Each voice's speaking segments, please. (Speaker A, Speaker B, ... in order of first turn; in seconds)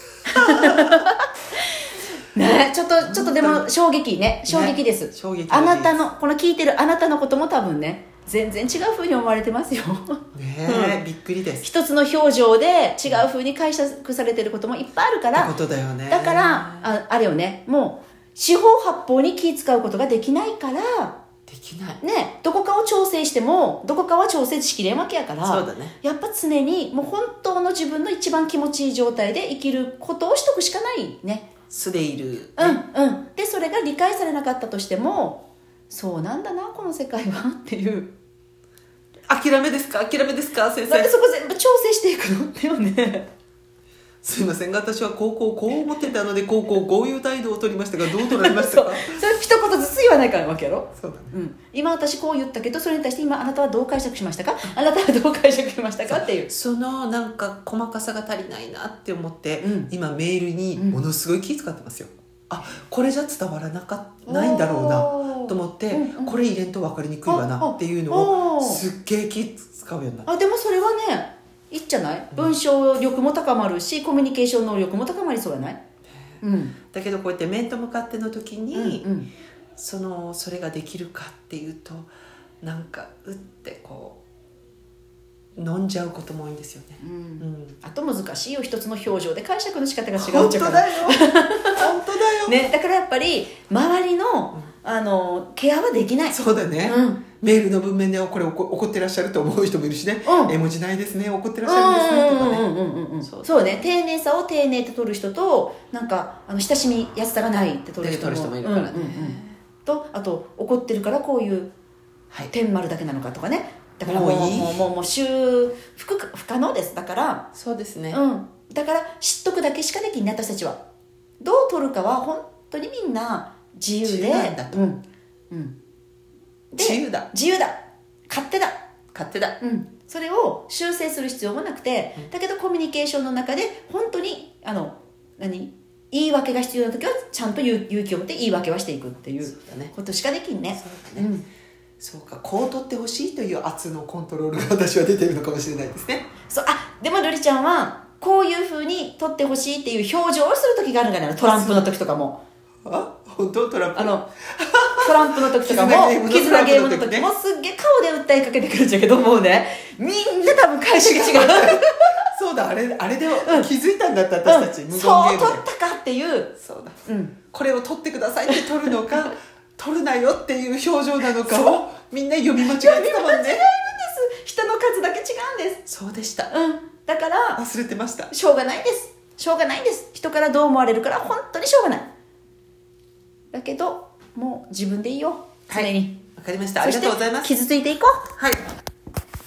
Speaker A: 0.2-11.0, 11.6-15.5, 16.1-21.2, 22.0-31.5, 32.6-38.1, 40.9-43.3, 48.1-56.5, 59.6-59.9, 60.8-61.0, 64.3-66.3, 67.3-68.8, 70.2-75.8, 76.4-76.7, 78.7-79.3, 87.0-91.8, 92.5-97.2, 100.2-100.5, 101.6-111.7, 112.5-117.5, 118.1-120.8, 121.4-125.7, 126.7-128.8, 129.6-141.4, 146.5-152.4, 153.9-154.3, 154.9-162.2, 163.4-163.7, 164.4-166.5, 167.1-167.3, 171.3-171.7, 172.6-175.8, 176.5-177.6, 178.3-182.1, 183.5-186.2, 186.8-188.3
Speaker B: 0.3-1.0, 3.0-3.7, 4.5-6.0, 10.3-11.7, 15.3-16.9, 21.5-22.0, 25.4-25.9, 31.7-32.8, 39.3-41.1, 44.2-49.2, 51.0-51.3, 56.1-70.3, 76.2-79.1, 79.8-82.1, 82.6-84.2, 85.5-87.8, 90.2-92.6, 96.3-102.7, 103.2-103.9, 108.0-109.6, 114.0-114.9, 117.5-118.2, 124.0-124.8, 126.8-127.3, 129.1-129.6, 139.4-139.9, 140.7-141.3, 142.0-146.3, 151.5-151.9, 152.8-157.3, 160.9-165.6, 166.6-167.0, 167.5-173.7, 175.8-176.5, 177.6-178.3, 185.7-187.5, 188.4-188.6